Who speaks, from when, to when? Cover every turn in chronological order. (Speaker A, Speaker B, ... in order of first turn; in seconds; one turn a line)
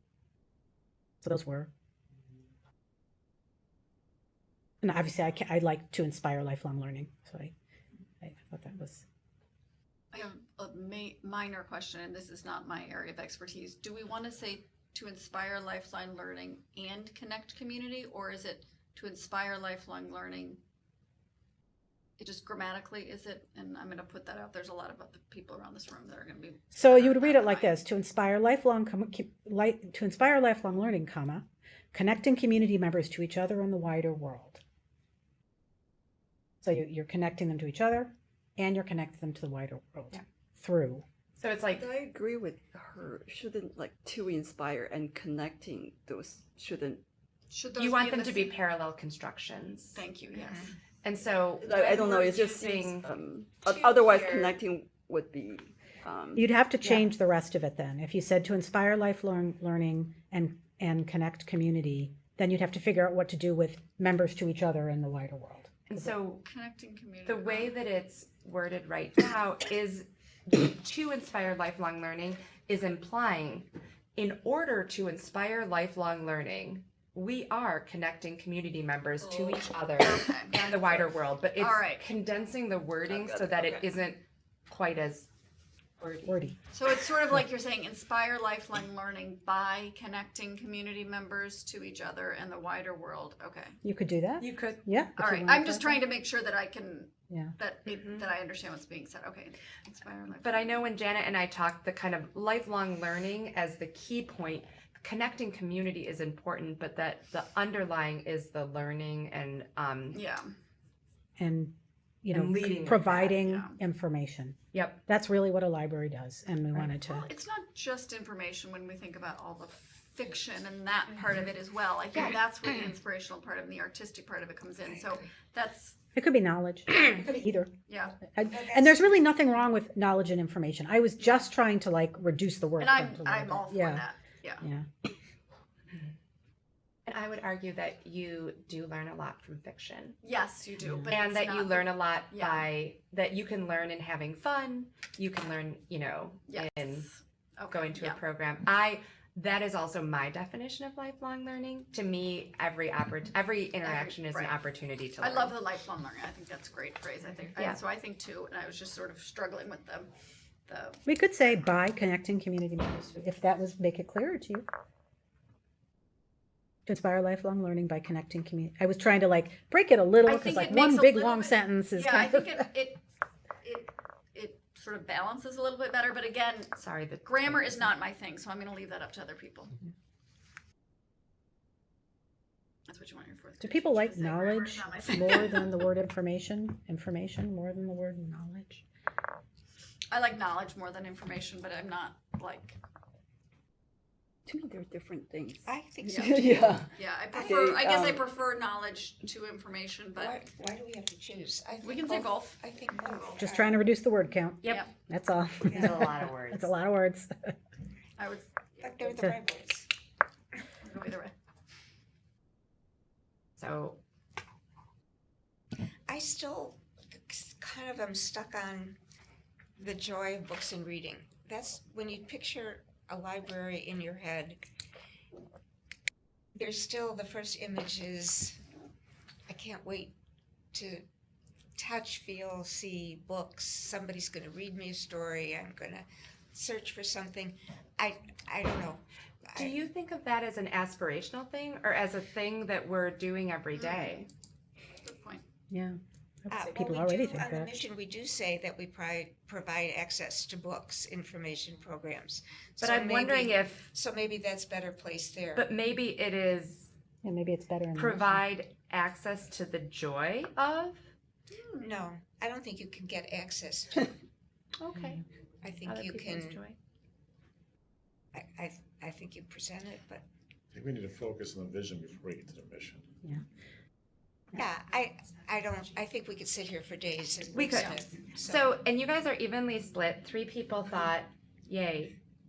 Speaker A: 1.2-1.7
Speaker A: 4.8-7.5
Speaker A: 8.2-9.1
Speaker B: 10.1-20.6
Speaker B: 22.2-27.7
Speaker A: 26.7-34.6
Speaker A: 36.6-41.0
Speaker C: 41.4-41.9
Speaker D: 41.7-47.0
Speaker B: 47.5-48.5
Speaker C: 47.8-50.0
Speaker B: 50.0-50.7
Speaker E: 50.3-50.7
Speaker C: 51.0-53.1
Speaker D: 51.6-56.5
Speaker C: 53.6-54.6
Speaker A: 56.4-66.1
Speaker C: 65.9-66.4
Speaker B: 66.5-67.8
Speaker C: 67.3-85.3
Speaker B: 80.0-80.7
Speaker B: 81.6-82.0
Speaker D: 83.0-83.9
Speaker C: 86.0-86.3
Speaker A: 86.3-86.6
Speaker B: 86.7-93.8
Speaker A: 93.8-96.0
Speaker C: 94.4-94.8
Speaker B: 95.2-100.8
Speaker A: 97.3-97.5
Speaker C: 100.4-110.2
Speaker B: 110.1-110.5
Speaker A: 111.4-117.3
Speaker C: 112.3-113.3
Speaker B: 113.0-113.8
Speaker C: 114.7-115.0
Speaker B: 116.8-126.0
Speaker A: 126.2-127.7
Speaker B: 127.9-128.2
Speaker A: 128.3-134.1
Speaker E: 128.5-129.3
Speaker B: 132.8-134.6
Speaker A: 134.6-134.9
Speaker C: 137.1-140.2
Speaker B: 140.2-142.7
Speaker A: 140.8-141.1
Speaker C: 141.1-147.1
Speaker B: 146.5-148.2
Speaker C: 147.7-155.6
Speaker B: 153.8-154.6
Speaker B: 155.2-160.1
Speaker B: 160.7-161.0
Speaker A: 161.1-164.7
Speaker A: 166.9-172.6
Speaker B: 170.2-173.0
Speaker B: 173.6-179.7
Speaker C: 176.8-177.9
Speaker B: 182.9-185.7
Speaker A: 183.6-188.8
Speaker B: 190.1-192.8
Speaker D: 194.5-198.3
Speaker E: 195.7-196.7
Speaker B: 196.1-200.4
Speaker E: 200.2-203.8
Speaker B: 201.8-202.6
Speaker A: 203.4-207.5
Speaker C: 205.7-206.7
Speaker B: 208.2-209.2
Speaker E: 208.8-209.9
Speaker B: 210.8-211.3
Speaker C: 213.6-214.0
Speaker E: 216.1-219.0
Speaker E: 219.8-224.6
Speaker E: 226.6-228.6
Speaker E: 229.5-230.1
Speaker E: 230.7-231.1
Speaker E: 231.8-239.8
Speaker C: 239.6-244.3
Speaker B: 243.8-244.1
Speaker B: 245.0-245.4
Speaker A: 245.7-247.7
Speaker E: 246.5-255.7
Speaker C: 252.8-253.9
Speaker C: 255.6-256.9
Speaker A: 257.2-258.4
Speaker C: 258.0-261.0
Speaker B: 261.5-261.9
Speaker E: 261.8-264.1
Speaker C: 264.8-265.2
Speaker E: 265.6-266.6
Speaker C: 265.9-266.8
Speaker E: 268.3-270.2
Speaker F: 270.7-273.1
Speaker E: 274.5-278.7
Speaker C: 277.5-282.1